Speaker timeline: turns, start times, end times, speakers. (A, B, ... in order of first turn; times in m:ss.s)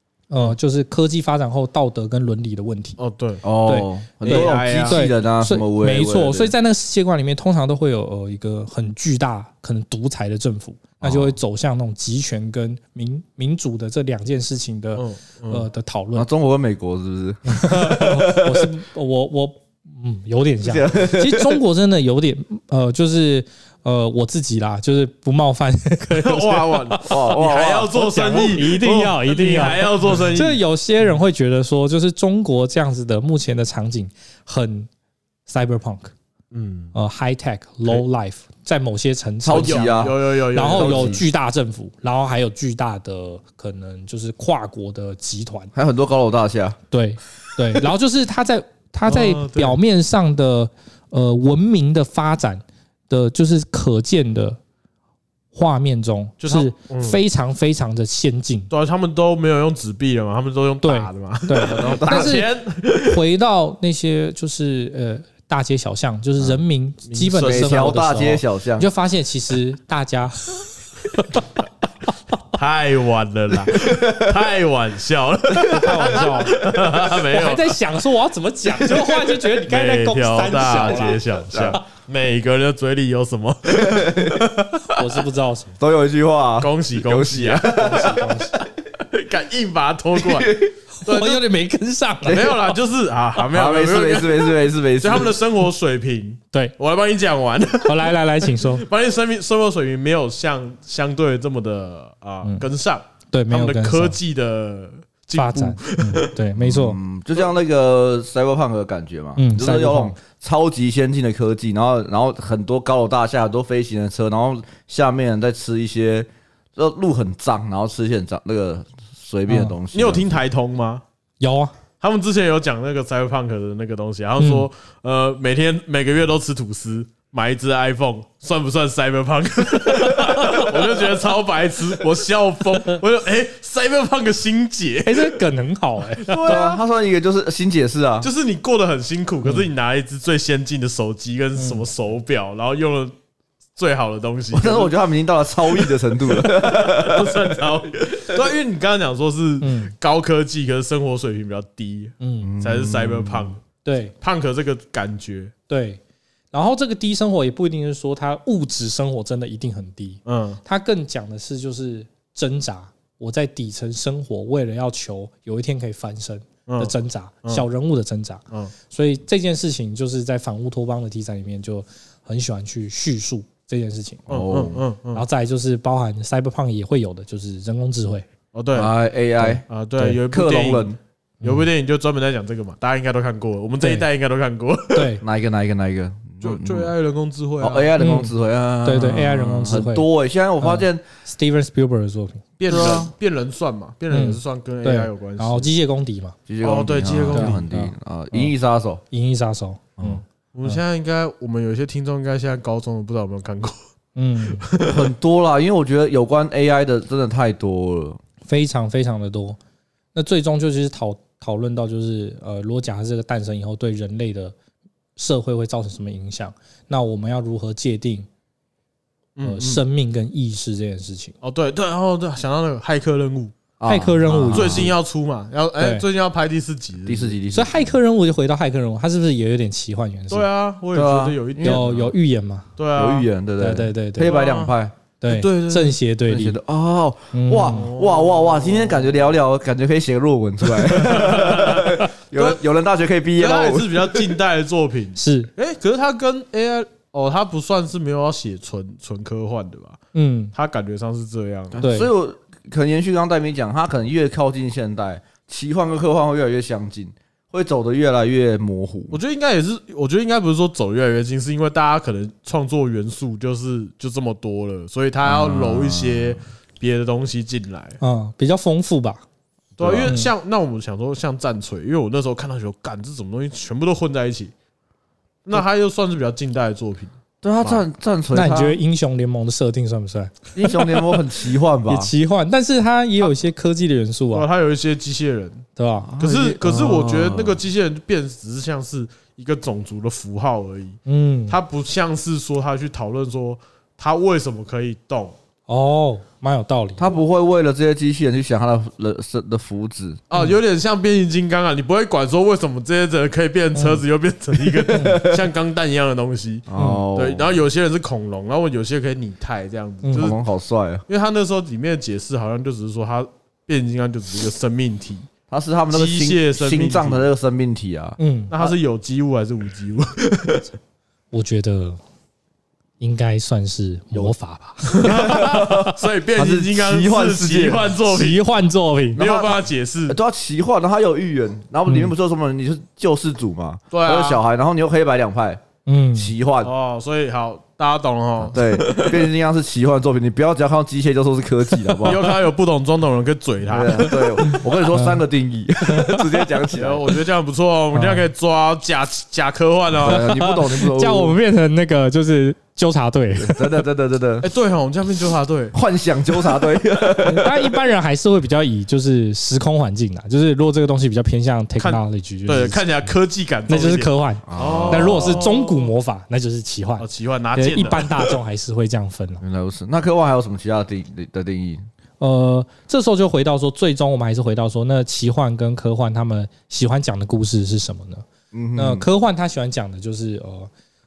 0:00.3-0:03.0 A
0:03.0-0:03.4 B
0:03.4-0:06.5 C
0:03.6-0:16.3 A
0:04.2-0:05.0 B
0:11.0-0:11.4 C
0:15.0-0:15.6 B
0:16.2-0:18.7 C
0:17.5-0:34.9 A
0:20.6-0:21.6 C
0:26.2-0:31.1 B
0:27.0-0:27.9 C
0:35.5-0:36.1 A
0:36.5-0:36.9 B
0:37.0-0:45.7 A
0:39.4-0:41.2 C
0:39.5-0:41.2 B
0:45.7-0:46.8 C
0:46.9-0:54.6 A
0:49.1-0:49.8 B
0:55.5-0:58.7 A
0:56.4-0:57.2 B
0:58.7-1:03.2 B
1:00.8-1:10.5 A
1:01.6-1:02.4 C
1:07.1-1:08.0 B
1:07.4-1:08.9 C
1:12.5-1:17.7 B
1:13.8-1:14.2 C
1:15.7-1:21.8 A
1:19.6-1:24.7 B
1:21.5-1:21.8 C
1:23.7-1:24.4 C
1:24.9-1:25.8 A
1:25.8-1:28.3 C
1:26.6-1:28.3 B
1:27.7-1:28.6 A
1:29.0-1:31.4 B
1:30.2-1:30.7 C
1:31.0-1:32.7 A
1:32.3-1:38.1 B
1:33.4-1:35.4 C
1:37.8-1:38.9 A
1:38.6-1:46.3 B
1:43.3-1:44.2 A
1:45.4-1:47.0 A
1:46.6-2:00.4 C
1:49.4-1:50.2 A
1:59.5-1:59.8 A
1:59.9-2:01.0 B
2:01.4-2:01.7 A
2:02.0-2:15.4 B
2:04.4-2:04.7 A
2:15.0-2:16.4 A
2:16.2-2:16.8 B
2:16.4-2:18.3 C
2:18.2-2:23.1 B
2:21.6-2:21.8 A
2:23.8-2:24.9 B
2:24.5-2:27.6 C
2:26.4-2:33.6 B
2:29.6-2:29.9 A
2:32.2-2:32.5 A
2:32.4-2:33.5 C
2:33.8-2:34.1 A
2:34.2-2:35.5 B
2:35.7-2:36.0 A
2:36.5-2:54.3 A
2:40.3-2:40.6 B
2:46.7-2:46.9 B
2:54.3-2:54.8 C
2:54.3-2:55.2 B
2:55.1-2:58.2 A
2:58.5-2:58.9 B
2:58.7-2:59.6 C
2:59.4-3:00.2 A
2:59.7-3:00.9 B
3:00.2-3:01.0 C
3:01.4-3:01.7 A
3:01.4-3:05.2 B
3:03.8-3:04.1 A
3:04.9-3:05.2 A
3:05.2-3:06.9 C
3:06.4-3:07.9 B
3:07.6-3:11.0 C
3:08.0-3:10.1 A
3:10.6-3:12.5 A
3:12.6-3:15.7 B
3:12.7-3:13.1 C
3:14.1-3:16.4 A
3:16.5-3:19.0 C
3:16.6-3:17.6 B
3:17.3-3:17.9 A
3:19.1-3:20.8 A
3:20.5-3:23.8 B
3:24.2-3:24.7 A
3:24.6-3:25.1 B
3:24.8-3:28.2 C
3:28.5-3:29.6 A
3:30.2-3:34.5 A
3:35.2-3:38.3 A
3:39.4-3:39.8 B
3:39.4-3:41.3 A
3:41.4-3:43.5 B
3:43.8-3:44.9 C
3:43.9-3:44.9 A
3:44.5-3:47.4 B
3:45.8-3:46.0 A
3:47.1-3:48.0 C
3:47.5-3:50.5 A
3:50.3-3:52.1 B
3:50.9-3:52.0 C
3:51.6-3:52.7 A
3:52.8-3:53.3 B
3:53.0-3:55.0 C
3:53.6-3:54.4 A
3:54.2-3:54.7 B
3:55.2-3:56.6 A
3:55.3-3:56.0 B
3:56.3-4:04.3 C
3:57.3-3:57.9 A
3:57.7-3:59.3 B
4:00.8-4:02.6 B
4:03.4-4:10.0 B
4:05.2-4:05.5 A
4:10.1-4:10.5 A
4:10.5-4:11.8 B
4:11.7-4:19.2 C
4:11.8-4:12.1 A
4:19.1-4:28.0 B
4:25.2-4:26.4 C
4:28.0-4:29.2 A
4:29.8-4:34.5 B
4:29.8-4:30.1 C
4:30.0-4:30.3 A
4:35.4-4:37.8 B
4:37.4-4:38.8 C
4:38.3-4:41.1 A
4:40.6-4:42.1 C
4:41.9-4:44.5 A
4:44.3-4:45.6 B
4:45.8-4:46.1 A
4:46.0-4:47.6 C
4:46.2-4:55.4 B
4:51.1-4:51.6 A
4:55.7-4:57.1 A
4:57.0-5:00.2 C
5:00.3-5:10.4 B
5:03.8-5:04.0 A
5:04.9-5:05.4 C
5:04.9-5:05.2 A
5:06.7-5:07.5 C
5:06.8-5:07.0 A
5:10.0-5:10.4 A
5:10.2-5:11.0 C
5:11.1-5:15.3 B
5:15.5-5:18.2 C
5:15.9-5:17.3 B
5:18.2-5:18.6 A
5:18.5-5:20.6 B
5:21.3-5:22.0 A
5:23.0-5:25.8 A
5:24.9-5:28.4 B
5:25.0-5:27.9 C
5:28.1-5:29.2 A
5:29.2-5:30.2 B
5:29.2-5:35.6 C
5:33.9-5:34.4 B
5:35.9-5:36.3 A
5:36.2-5:36.7 C
5:36.6-5:39.0 B
5:38.5-5:42.3 C
5:42.0-5:44.1 B
5:43.7-5:47.1 C
5:44.0-5:45.2 A
5:45.8-5:46.4 A
5:46.8-5:50.3 B
5:47.9-5:48.3 A
5:49.9-5:51.4 C
5:50.1-5:53.8 A
5:53.4-5:54.5 C
5:54.4-5:55.8 B
5:55.7-5:57.7 C
5:57.2-6:03.2 A
6:01.8-6:05.9 B
6:03.7-6:09.4 A
6:04.5-6:05.5 C
6:07.0-6:08.1 B
6:09.4-6:11.8 C
6:12.2-6:18.2 A
6:18.5-6:19.1 C
6:18.8-6:20.7 A